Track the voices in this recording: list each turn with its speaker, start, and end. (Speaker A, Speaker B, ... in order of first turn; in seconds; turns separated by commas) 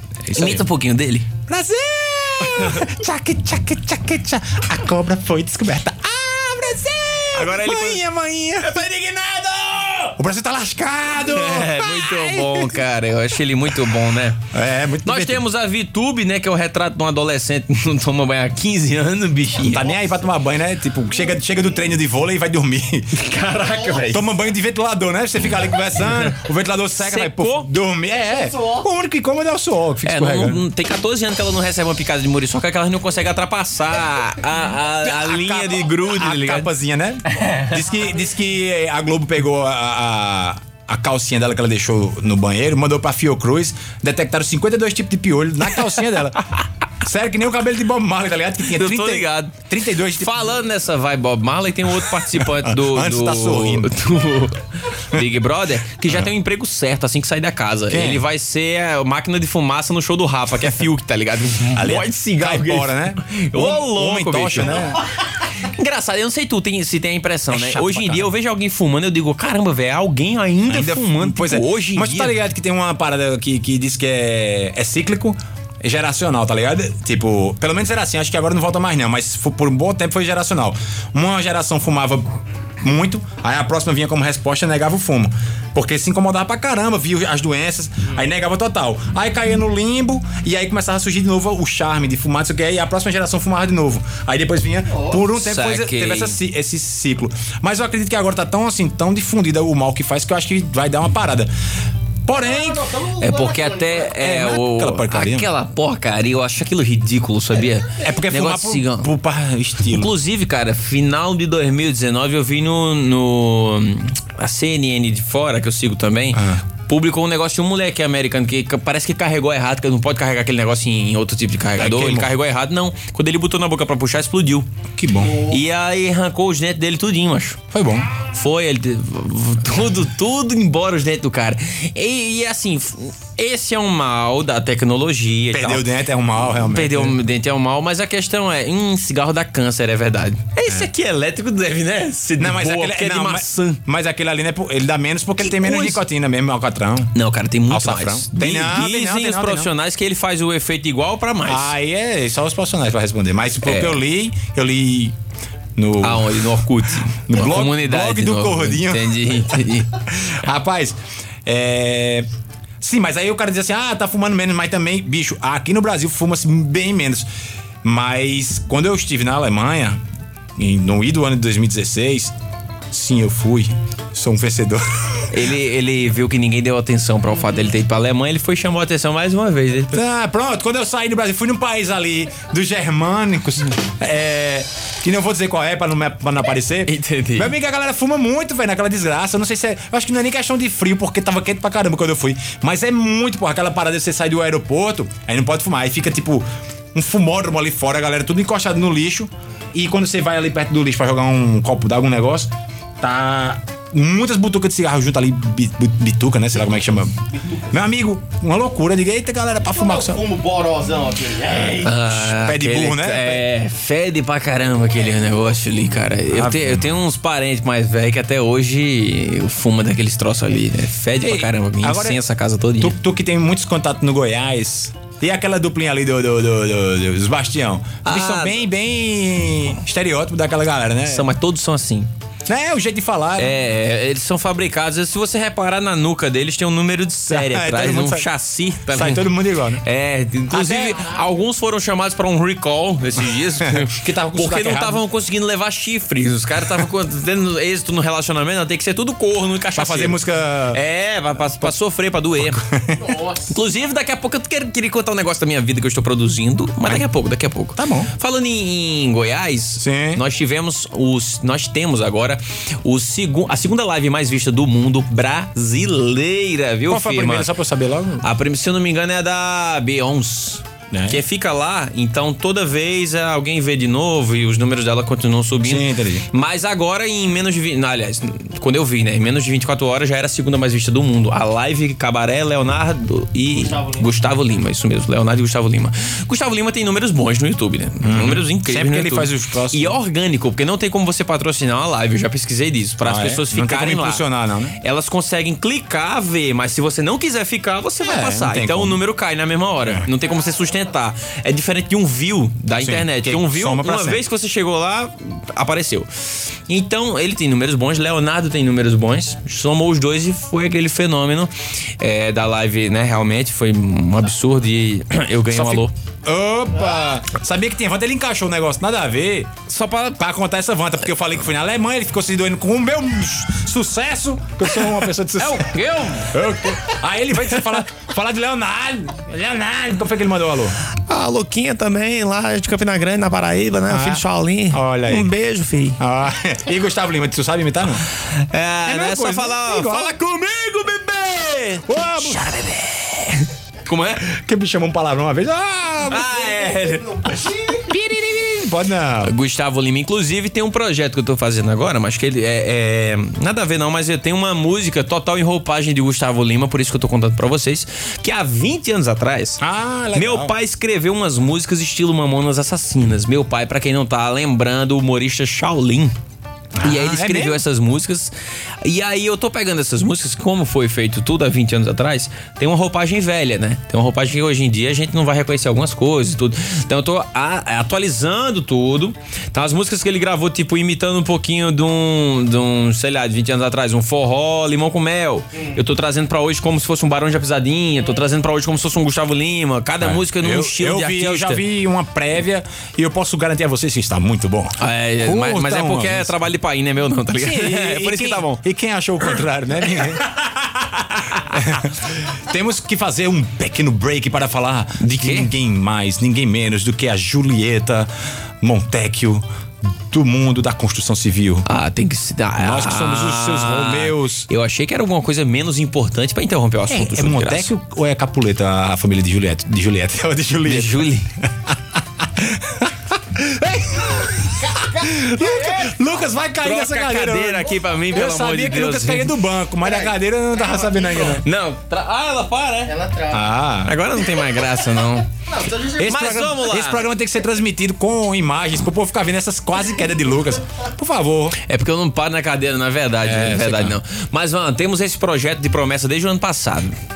Speaker A: 0.2-0.7, Speaker B: 0.3-1.3, Speaker A: 1.5-8.9, Speaker B: 2.5-2.8, Speaker B: 7.3-8.0, Speaker B: 8.6-10.1, Speaker A: 10.1-12.8, Speaker B: 11.3-14.4, Speaker A: 14.5-15.4, Speaker B: 15.1-19.9, Speaker A: 19.6-23.2, Speaker B: 23.1-24.2, Speaker A: 23.9-30.6, Speaker B: 27.0-27.7, Speaker B: 30.0-36.7, Speaker A: 35.0-46.4, Speaker B: 37.3-37.8, Speaker A: 47.0-50.5, Speaker B: 48.7-49.6, Speaker B: 50.2-64.8, Speaker A: 52.0-53.9, Speaker A: 57.9-58.2, Speaker A: 61.7-65.0, Speaker B: 65.6-72.3, Speaker A: 67.5-68.3, Speaker A: 70.7-82.3, Speaker A: 82.8-101.5, Speaker B: 95.3-96.4, Speaker A: 102.2-102.9, Speaker C: 102.7-103.7, Speaker B: 103.2-109.1, Speaker A: 104.0-105.5, Speaker A: 108.0-110.1, Speaker B: 109.9-124.7, Speaker A: 116.3-116.6, Speaker A: 121.8-122.3, Speaker A: 125.0-125.5, Speaker B: 125.3-127.6, Speaker A: 127.7-128.1, Speaker B: 128.2-135.9, Speaker A: 135.5-137.2, Speaker B: 136.4-143.8, Speaker A: 142.4-147.2, Speaker B: 145.4-146.0, Speaker B: 147.1-151.7, Speaker A: 147.7-149.7, Speaker A: 151.5-155.2, Speaker B: 153.7-154.0, Speaker A: 155.8-159.5, Speaker B: 156.0-159.9, Speaker A: 160.2-162.3, Speaker A: 162.8-167.3, Speaker A: 167.8-170.0, Speaker A: 170.6-172.3, Speaker A: 172.9-175.4, Speaker B: 175.3-180.0, Speaker A: 179.9-207.1, Speaker B: 186.9-187.5, Speaker A: 207.7-210.3, Speaker C: 210.0-211.8, Speaker A: 211.6-213.5, Speaker B: 211.8-222.9, Speaker A: 216.3-216.9, Speaker A: 221.2-222.2, Speaker A: 222.8-231.3, Speaker B: 228.1-228.6, Speaker B: 231.1-232.1, Speaker A: 232.5-233.6, Speaker B: 233.4-239.3, Speaker A: 237.3-238.3, Speaker A: 238.9-239.8, Speaker B: 239.8-250.2, Speaker A: 240.5-241.0, Speaker A: 243.6-245.0, Speaker A: 249.8-250.8, Speaker B: 250.7-252.6, Speaker A: 252.4-253.1, Speaker B: 253.3-267.5, Speaker A: 257.8-258.1, Speaker A: 259.8-260.2, Speaker A: 266.9-268.2, Speaker B: 268.2-294.2, Speaker A: 270.9-271.2, Speaker A: 275.6-276.3, Speaker A: 288.0-290.0, Speaker A: 293.0-294.8, Speaker B: 294.8-306.1, Speaker A: 298.0-299.0, Speaker A: 302.8-304.2, Speaker B: 306.7-315.9, Speaker A: 315.5-319.5, Speaker B: 319.7-320.2, Speaker A: 320.2-330.8, Speaker B: 325.4-326.4, Speaker B: 330.9-336.0, Speaker A: 333.9-335.3, Speaker A: 336.0-338.0, Speaker B: 338.4-344.3, Speaker A: 338.9-340.2, Speaker A: 341.9-342.5, Speaker A: 344.2-346.5, Speaker B: 346.1-347.5, Speaker A: 347.8-349.3, Speaker B: 349.2-359.6, Speaker A: 359.6-360.5, Speaker B: 360.1-366.1, Speaker A: 366.8-367.6, Speaker B: 366.8-391.6, Speaker A: 390.0-396.4, Speaker B: 394.8-398.6, Speaker A: 397.4-408.1, Speaker B: 401.3-401.6, Speaker B: 405.0-405.5, Speaker A: 408.6-409.4, Speaker A: 410.1-411.7, Speaker B: 411.7-417.7, Speaker A: 412.6-414.5, Speaker A: 416.9-421.1, Speaker B: 420.6-421.3, Speaker A: 421.7-431.4, Speaker B: 426.6-429.3, Speaker B: 431.3-433.0, Speaker C: 432.9-433.4, Speaker A: 433.3-434.0, Speaker B: 433.8-435.3, Speaker C: 435.5-436.0, Speaker A: 435.8-441.6, Speaker B: 436.0-437.0, Speaker B: 441.7-447.0, Speaker A: 443.2-444.0